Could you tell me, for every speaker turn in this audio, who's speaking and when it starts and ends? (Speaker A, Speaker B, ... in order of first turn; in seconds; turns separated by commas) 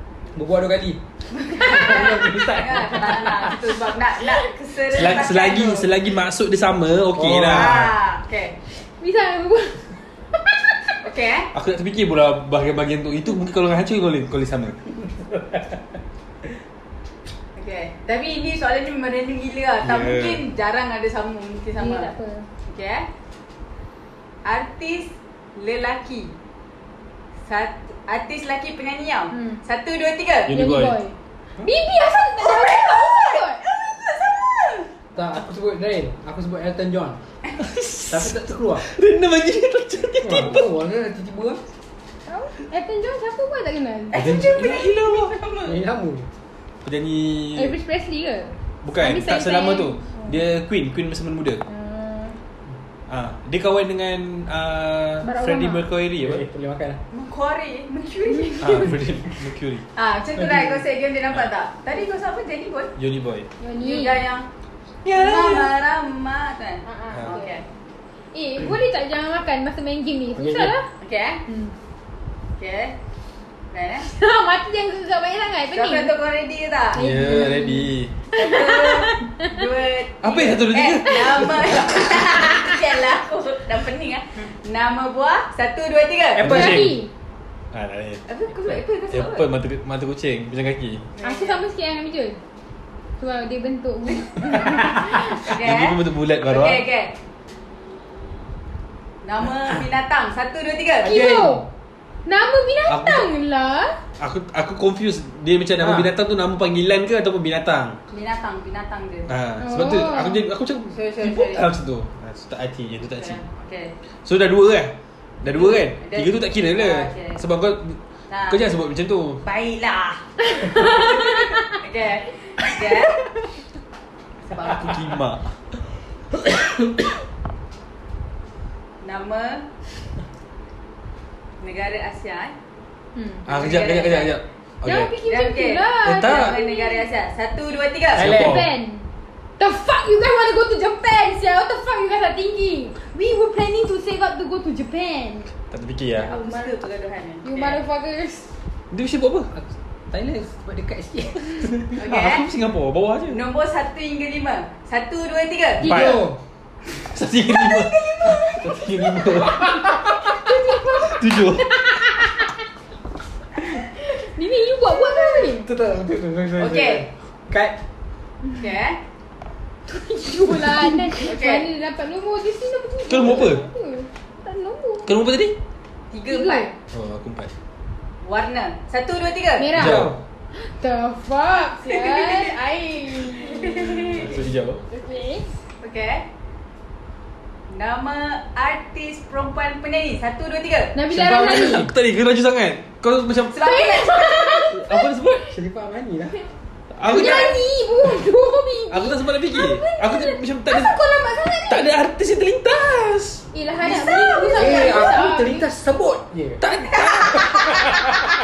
Speaker A: 0.3-3.6, Speaker B: 1.3-5.9, Speaker C: 1.5-2.0, Speaker D: 4.9-7.9, Speaker A: 7.2-7.9, Speaker B: 7.5-8.6, Speaker C: 9.0-11.0, Speaker B: 11.0-11.5, Speaker D: 11.5-14.8, Speaker B: 17.6-22.1, Speaker D: 19.8-20.4, Speaker C: 21.8-22.5, Speaker B: 22.6-23.1, Speaker B: 24.4-26.4, Speaker B: 27.5-30.5, Speaker C: 29.3-29.6, Speaker D: 30.5-31.0, Speaker C: 30.5-33.6, Speaker B: 32.4-34.9, Speaker A: 35.1-37.2, Speaker D: 37.6-40.7, Speaker A: 38.1-38.9, Speaker A: 40.2-41.6, Speaker C: 42.3-44.3, Speaker B: 44.1-45.8, Speaker D: 44.1-45.4, Speaker A: 45.6-46.3, Speaker D: 46.8-47.8, Speaker C: 47.5-50.4, Speaker D: 48.8-51.6, Speaker C: 51.7-52.4, Speaker D: 53.1-56.4, Speaker C: 55.2-55.9, Speaker A: 56.2-57.0, Speaker B: 57.1-59.0, Speaker D: 58.6-59.8, Speaker B: 60.0-62.9, Speaker A: 60.4-60.8, Speaker D: 63.0-63.5, Speaker C: 63.6-64.2, Speaker B: 63.8-64.5, Speaker D: 65.0-65.7, Speaker B: 65.1-67.6, Speaker C: 66.8-67.6, Speaker C: 68.3-70.9, Speaker A: 70.4-70.7, Speaker B: 71.0-71.4, Speaker C: 71.5-71.7, Speaker B: 72.6-73.0, Speaker B: 73.7-74.1, Speaker C: 74.0-76.1, Speaker B: 75.7-77.1, Speaker D: 76.9-78.1, Speaker C: 77.0-79.7, Speaker B: 78.4-86.5, Speaker D: 80.2-82.1, Speaker C: 82.3-82.8, Speaker D: 86.4-87.0, Speaker A: 86.4-86.9, Speaker C: 86.4-87.1, Speaker D: 87.7-88.2, Speaker B: 88.3-89.5, Speaker D: 89.1-91.0, Speaker B: 91.2-91.6, Speaker C: 91.2-92.4, Speaker C: 93.2-95.5, Speaker B: 94.6-97.1, Speaker D: 95.5-96.8, Speaker B: 99.2-101.3, Speaker C: 101.0-101.7, Speaker A: 101.1-101.6, Speaker C: 102.3-104.0, Speaker D: 102.9-103.3, Speaker D: 104.2-108.0, Speaker A: 105.8-106.1, Speaker B: 108.1-109.3, Speaker D: 109.3-113.4, Speaker C: 109.6-110.4, Speaker B: 110.9-111.7, Speaker B: 113.1-113.9, Speaker D: 114.2-119.4, Speaker B: 115.5-117.4, Speaker B: 118.3-118.6, Speaker B: 119.4-123.3, Speaker C: 120.6-121.6, Speaker B: 124.5-125.0, Speaker D: 124.6-125.5, Speaker B: 129.0-129.7, Speaker B: 131.6-132.6, Speaker C: 133.2-133.5, Speaker B: 133.5-134.4, Speaker D: 133.5-135.1, Speaker C: 134.8-137.1, Speaker B: 135.2-138.3, Speaker D: 136.0-136.6, Speaker D: 138.2-138.7, Speaker A: 138.2-138.7, Speaker C: 138.3-145.5, Speaker D: 145.7-146.3, Speaker B: 146.2-147.8, Speaker C: 146.2-146.7, Speaker C: 147.4-148.5, Speaker D: 148.9-149.5, Speaker A: 149.5-152.0, Speaker B: 152.0-152.5, Speaker D: 152.0-153.4, Speaker B: 153.3-156.2, Speaker D: 155.8-156.3, Speaker A: 155.8-156.4, Speaker C: 155.8-156.2, Speaker D: 156.9-160.4, Speaker B: 157.5-158.9, Speaker C: 159.8-162.6, Speaker D: 160.9-161.9, Speaker C: 164.0-165.7, Speaker A: 165.6-167.8, Speaker B: 166.6-167.1, Speaker B: 168.6-169.0, Speaker C: 169.9-175.1, Speaker A: 170.5-171.0, Speaker B: 171.2-171.7, Speaker D: 173.1-173.6, Speaker D: 175.1-175.6, Speaker B: 176.1-176.7, Speaker C: 176.3-176.7, Speaker D: 176.9-177.5, Speaker B: 178.2-179.7, Speaker C: 179.6-185.5, Speaker A: 179.7-180.2, Speaker D: 179.8-180.2, Speaker B: 181.8-182.6, Speaker B: 183.2-184.3, Speaker D: 183.8-184.8, Speaker B: 185.8-186.2, Speaker B: 187.7-190.9, Speaker C: 190.9-191.9, Speaker A: 191.1-191.9, Speaker D: 191.2-193.6, Speaker B: 193.5-194.7, Speaker C: 193.6-195.4, Speaker D: 194.7-195.5, Speaker A: 195.5-196.4, Speaker D: 196.9-198.3, Speaker C: 197.0-201.9, Speaker D: 198.9-201.0, Speaker D: 201.7-203.4, Speaker C: 203.5-205.7, Speaker B: 203.8-205.1, Speaker A: 204.5-206.6, Speaker D: 206.6-207.9, Speaker B: 206.9-207.8, Speaker A: 207.2-208.2